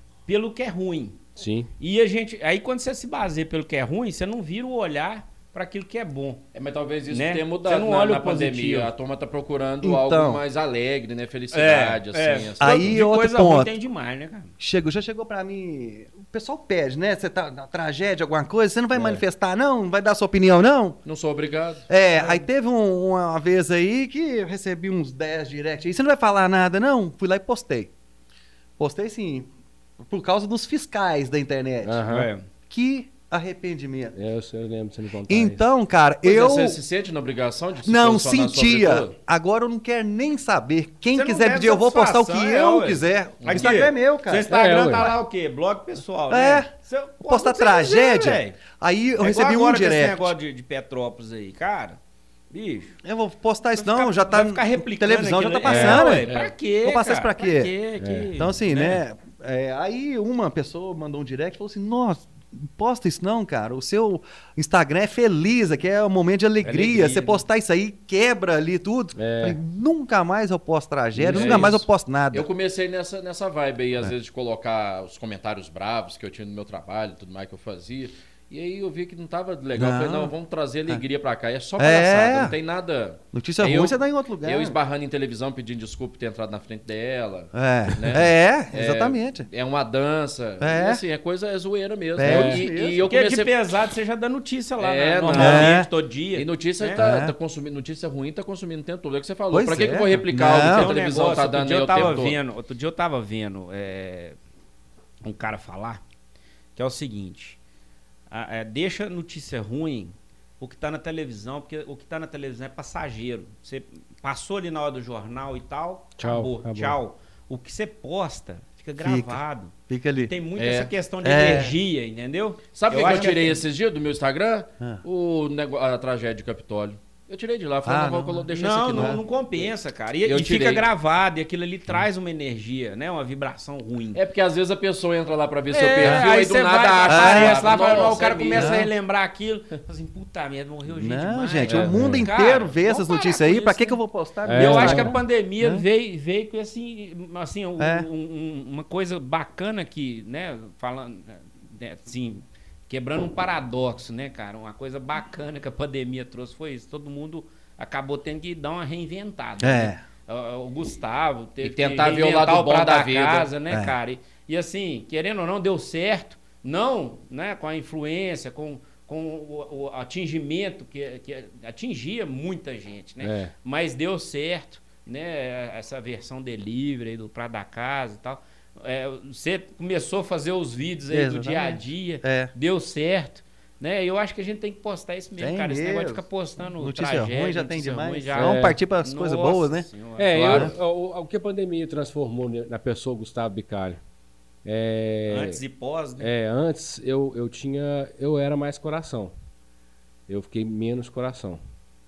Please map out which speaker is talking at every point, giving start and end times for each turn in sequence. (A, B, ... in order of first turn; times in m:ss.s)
0:00.3-0:01.2 A
0:01.4-0:01.7 B
0:01.8-0:06.4 A
0:06.5-0:13.0 C
0:07.1-0:08.9 A
0:09.8-0:10.4 D
0:11.5-0:14.5 A
0:12.6-0:13.7 D
0:14.6-0:21.0 D
0:18.9-0:19.2 B
0:21.0-0:21.9 C
0:21.9-0:27.9 D
0:22.2-0:22.4 A
0:28.8-0:29.5 D
0:30.0-0:32.0 D
0:31.8-0:32.3 B
0:32.1-0:32.5 A
0:32.7-0:34.2 D
0:34.1-0:35.6 B
0:35.3-0:36.8 D
0:36.2-0:39.1 C
0:37.8-0:44.5 D
0:41.1-0:48.6 A
0:43.4-0:43.7 C
0:44.5-0:45.1 B
0:46.3-0:46.7 D
0:47.3-0:50.3 D
0:49.2-0:52.0 A
0:52.5-0:53.0 A
0:53.0-0:56.3 D
0:53.8-0:59.0 A
0:55.6-0:56.1 B
0:56.8-0:57.7 D
0:58.0-0:58.3 B
0:58.4-1:12.5 D
1:06.6-1:07.4 A
1:09.2-1:09.6 B
1:11.2-1:11.8 B
1:11.2-1:33.5 C
1:19.8-1:20.3 D
1:21.8-1:22.5 D
1:23.3-1:24.8 D
1:27.5-1:29.5 D
1:30.6-1:31.0 D
1:32.2-1:33.0 D
1:32.2-1:32.6 B
1:33.0-1:37.0 A
1:34.8-1:35.8 C
1:35.3-1:35.9 D
1:36.3-1:42.4 C
1:37.0-1:37.3 D
1:39.5-1:40.9 D
1:40.5-1:44.4 A
1:45.2-1:46.0 A
1:46.8-1:47.6 A
1:48.3-1:59.7 A
1:56.2-1:57.0 B
1:59.0-2:00.3 D
2:00.3-2:03.6 A
2:00.6-2:00.9 C
2:01.2-2:01.8 D
2:02.7-2:10.9 C
2:07.8-2:09.2 D
2:08.5-2:14.2 A
2:14.1-2:18.8 C
2:15.7-3:10.6 A
2:16.0-2:16.3 D
2:17.1-2:17.8 D
2:18.5-2:18.9 D
2:20.9-2:25.8 D
2:21.7-2:22.3 B
2:24.4-2:25.2 B
2:27.8-2:28.1 D
2:39.6-2:40.0 D
2:41.6-2:43.5 C
2:43.7-2:44.0 D
2:53.2-2:53.5 B
3:01.1-3:02.5 D
3:05.4-3:09.9 D
3:08.3-3:08.8 B
3:10.2-3:14.0 B
3:10.3-3:10.7 C
3:14.6-3:15.6 B
3:15.3-3:16.3 A
3:16.2-3:19.3 B
3:20.3-3:21.6 B